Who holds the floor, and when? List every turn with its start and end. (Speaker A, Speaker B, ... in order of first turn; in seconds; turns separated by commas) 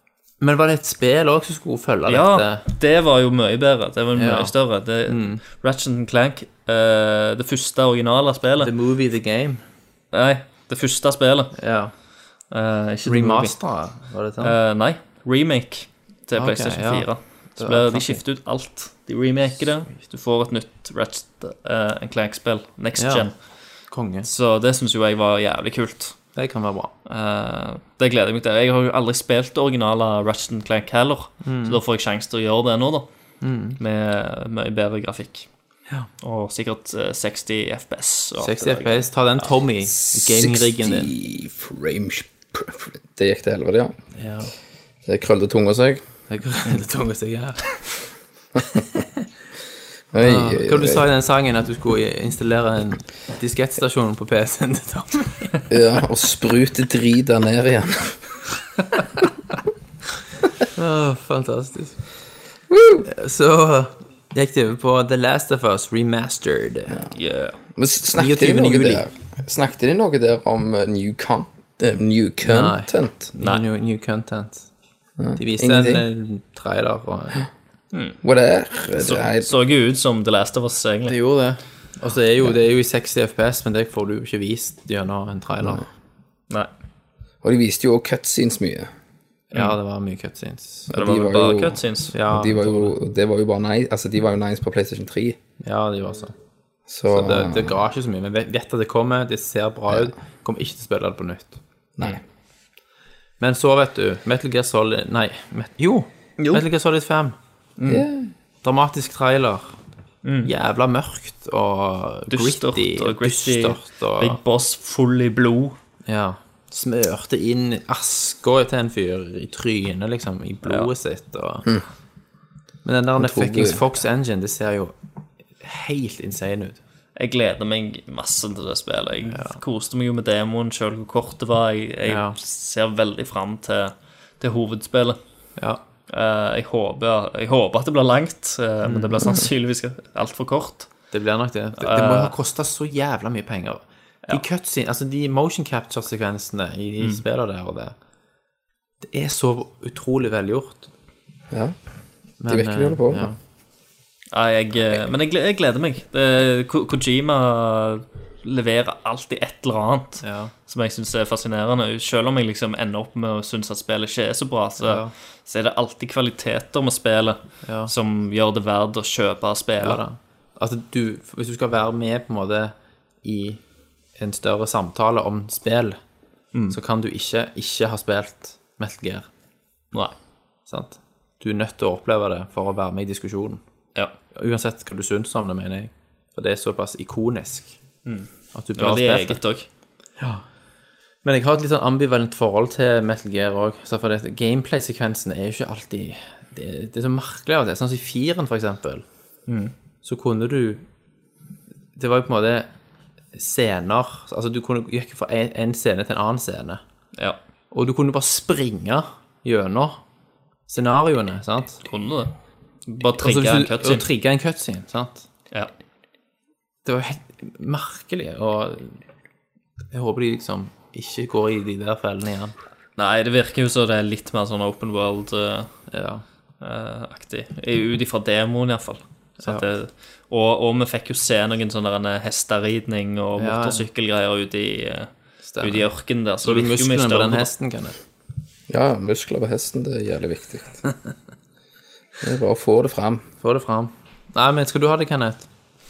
Speaker A: 0.4-2.6, Speaker B: 2.1-8.7, Speaker A: 4.2-4.5, Speaker A: 5.1-5.4, Speaker A: 8.6-9.6, Speaker B: 10.1-11.6, Speaker A: 11.6-11.9, Speaker B: 12.5-13.6, Speaker A: 13.1-14.6, Speaker B: 14.4-23.3, Speaker A: 16.4-18.2, Speaker A: 23.0-23.3, Speaker A: 23.9-24.3, Speaker B: 24.2-26.2, Speaker A: 26.4-26.9, Speaker B: 27.1-33.1, Speaker A: 31.4-31.8, Speaker A: 33.4-33.8, Speaker B: 33.8-35.5, Speaker B: 36.2-39.1, Speaker A: 38.4-41.1, Speaker C: 40.0-43.9, Speaker A: 44.1-44.5, Speaker C: 45.0-46.0, Speaker A: 46.3-47.8, Speaker A: 48.8-49.1, Speaker C: 50.1-51.0, Speaker A: 50.2-55.6, Speaker C: 55.7-58.2, Speaker A: 60.8-62.0, Speaker C: 62.7-63.1, Speaker A: 63.1-67.0, Speaker B: 67.1-67.6, Speaker C: 67.8-73.3, Speaker A: 68.2-69.1, Speaker A: 72.4-74.7, Speaker B: 73.4-73.6, Speaker C: 75.2-76.0, Speaker A: 75.4-77.5, Speaker B: 77.9-78.2, Speaker C: 78.2-79.5, Speaker B: 79.0-81.1, Speaker A: 81.1-85.8, Speaker C: 87.4-88.9, Speaker A: 89.5-90.9, Speaker C: 90.9-95.4, Speaker B: 90.9-92.1, Speaker A: 92.1-92.9, Speaker A: 95.6-96.3, Speaker C: 96.9-97.8, Speaker A: 97.1-101.6, Speaker A: 103.4-107.3, Speaker B: 106.4-106.6, Speaker B: 107.8-108.1, Speaker C: 107.9-108.3, Speaker A: 108.6-109.7, Speaker B: 110.2-110.5, Speaker A: 110.5-114.4, Speaker B: 112.3-115.8, Speaker A: 116.1-121.7, Speaker A: 122.8-124.9, Speaker C: 123.2-123.8, Speaker A: 125.6-126.8, Speaker B: 127.2-135.2, Speaker A: 129.3-129.6, Speaker A: 132.1-132.4, Speaker B: 136.1-140.9, Speaker A: 138.8-139.2, Speaker A: 141.1-147.9, Speaker B: 141.8-142.3, Speaker A: 149.0-150.9, Speaker C: 151.5-151.8, Speaker A: 152.4-153.4, Speaker C: 152.5-153.3, Speaker B: 154.3-170.0, Speaker A: 160.2-160.5, Speaker A: 164.8-165.1, Speaker A: 167.6-167.9, Speaker A: 169.8-173.6, Speaker A: 174.2-176.0, Speaker A: 176.7-179.3, Speaker A: 180.7-183.6, Speaker A: 184.3-187.8, Speaker B: 188.1-189.7, Speaker A: 188.5-189.4, Speaker A: 190.2-190.4, Speaker A: 191.2-199.1, Speaker B: 199.5-199.7, Speaker A: 200.0-200.8, Speaker A: 202.0-202.7, Speaker A: 203.3-206.8, Speaker A: 207.7-210.0, Speaker A: 210.7-211.8, Speaker B: 211.8-212.3, Speaker B: 212.9-214.1, Speaker A: 213.0-215.3, Speaker A: 216.8-219.0, Speaker A: 219.9-222.5, Speaker B: 223.0-225.7, Speaker A: 225.9-226.2, Speaker B: 226.6-237.5, Speaker A: 229.4-229.7, Speaker A: 233.4-233.9, Speaker A: 235.4-235.9, Speaker A: 236.4-238.0, Speaker C: 238.7-240.8, Speaker C: 242.2-243.2, Speaker A: 243.4-245.5